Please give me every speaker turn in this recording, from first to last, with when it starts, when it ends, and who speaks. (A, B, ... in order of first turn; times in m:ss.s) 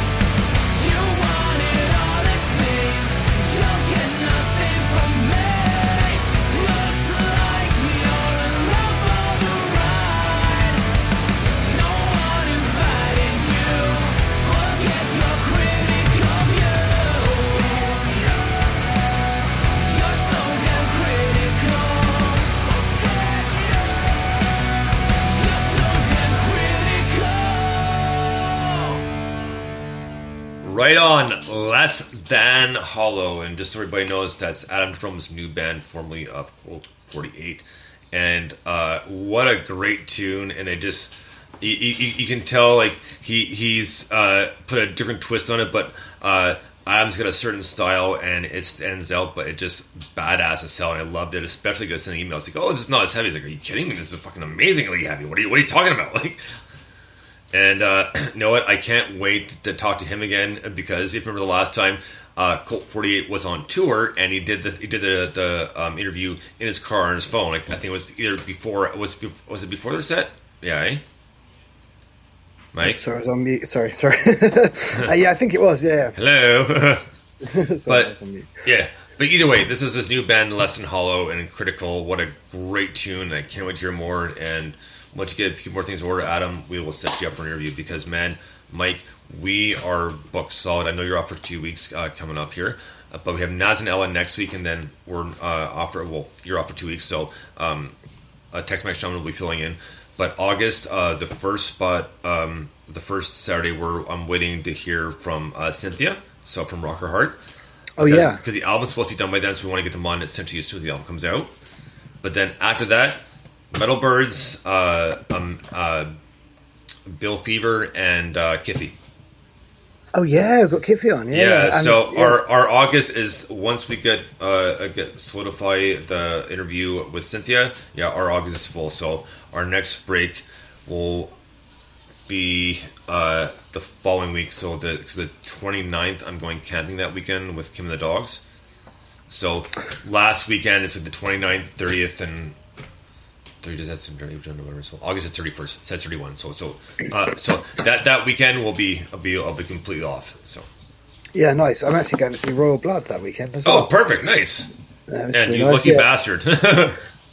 0:30.6-0:56.4 A
0:57.5-1:11.0 A
1:12.7-1:13.0 A
1:12.8-1:16.2 B
1:16.2-1:17.0 A
1:17.4-1:18.5 B
1:18.6-1:38.0 A
1:38.5-1:47.4 A
1:48.0-1:48.4 B
1:48.0-1:51.5 A
1:52.2-1:56.1 A
1:57.1-1:59.0 A
2:00.1-2:02.4 B
2:01.3-2:11.3 A
2:12.3-2:18.4 A
2:19.3-2:22.6 A
2:23.6-2:30.7 A
2:31.4-2:34.4 B
2:33.6-2:34.7 A
2:35.1-2:36.1 B
2:35.3-2:37.0 A